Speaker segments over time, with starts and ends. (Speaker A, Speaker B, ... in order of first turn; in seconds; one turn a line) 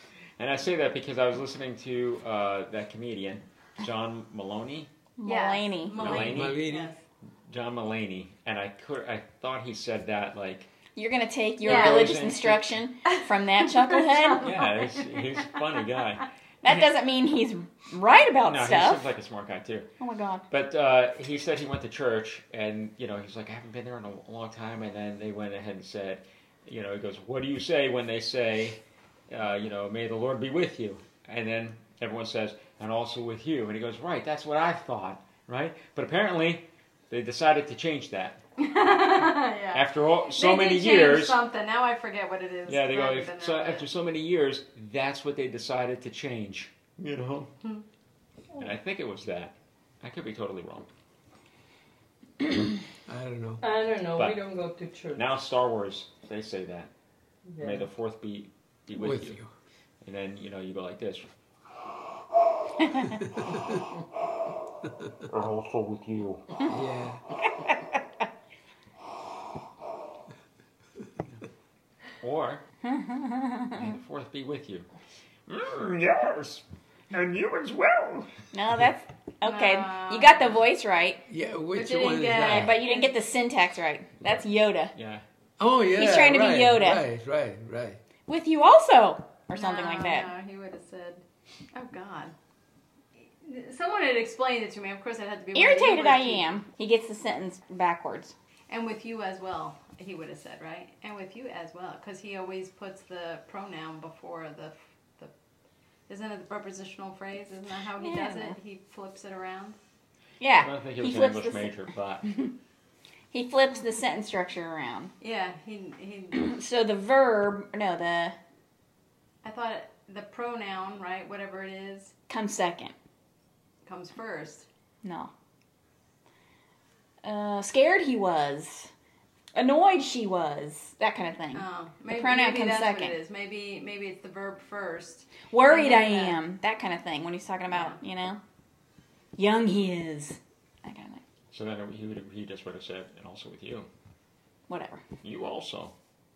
Speaker A: 0.4-4.9
Speaker B: 5.2-6.1
Speaker C: 5.2-7.0
Speaker A: 6.0-6.6
Speaker D: 6.0-6.9
Speaker A: 7.5-10.7
Speaker B: 10.9-14.5
Speaker A: 11.6-12.9
Speaker C: 11.7-12.1
Speaker C: 13.9-15.2
Speaker A: 14.4-16.8
Speaker B: 16.6-19.1
Speaker A: 18.4-19.9
Speaker B: 20.0-20.4
Speaker A: 20.5-38.4
Speaker C: 38.6-43.9
Speaker A: 39.7-41.4
Speaker A: 42.7-47.5
Speaker A: 48.6-50.9
Speaker D: 53.1-53.7
Speaker E: 53.6-55.3
Speaker A: 54.1-54.4
Speaker A: 55.1-56.9
Speaker E: 57.5-57.9
Speaker A: 57.6-59.4
Speaker D: 59.0-59.5
Speaker A: 60.0-61.3
Speaker A: 65.3-66.6
Speaker D: 66.7-67.2
Speaker A: 72.2-72.6
Speaker B: 72.8-73.7
Speaker A: 73.7-74.9
Speaker A: 75.5-78.3
Speaker B: 78.5-81.2
Speaker C: 79.4-80.5
Speaker D: 81.3-82.7
Speaker C: 81.7-83.1
Speaker B: 82.4-84.9
Speaker A: 85.0-85.2
Speaker D: 85.6-88.0
Speaker B: 85.9-87.1
Speaker B: 88.3-90.3
Speaker C: 89.5-91.2
Speaker C: 91.7-92.3
Speaker C: 93.4-96.5
Speaker B: 95.5-98.3
Speaker C: 98.7-105.3
Speaker C: 106.1-109.8
Speaker B: 108.0-108.6
Speaker B: 110.4-112.5
Speaker A: 110.6-112.3
Speaker B: 113.3-115.1
Speaker C: 115.2-116.5
Speaker B: 116.3-118.4
Speaker C: 119.4-122.1
Speaker B: 122.3-122.9
Speaker C: 123.8-124.7
Speaker B: 125.0-125.3
Speaker B: 127.2-128.9
Speaker B: 129.6-133.2
Speaker C: 131.5-136.4
Speaker B: 135.5-138.4
Speaker C: 137.7-138.0
Speaker B: 139.4-141.2
Speaker A: 141.5-143.9
Speaker B: 144.7-145.0
Speaker A: 145.2-145.9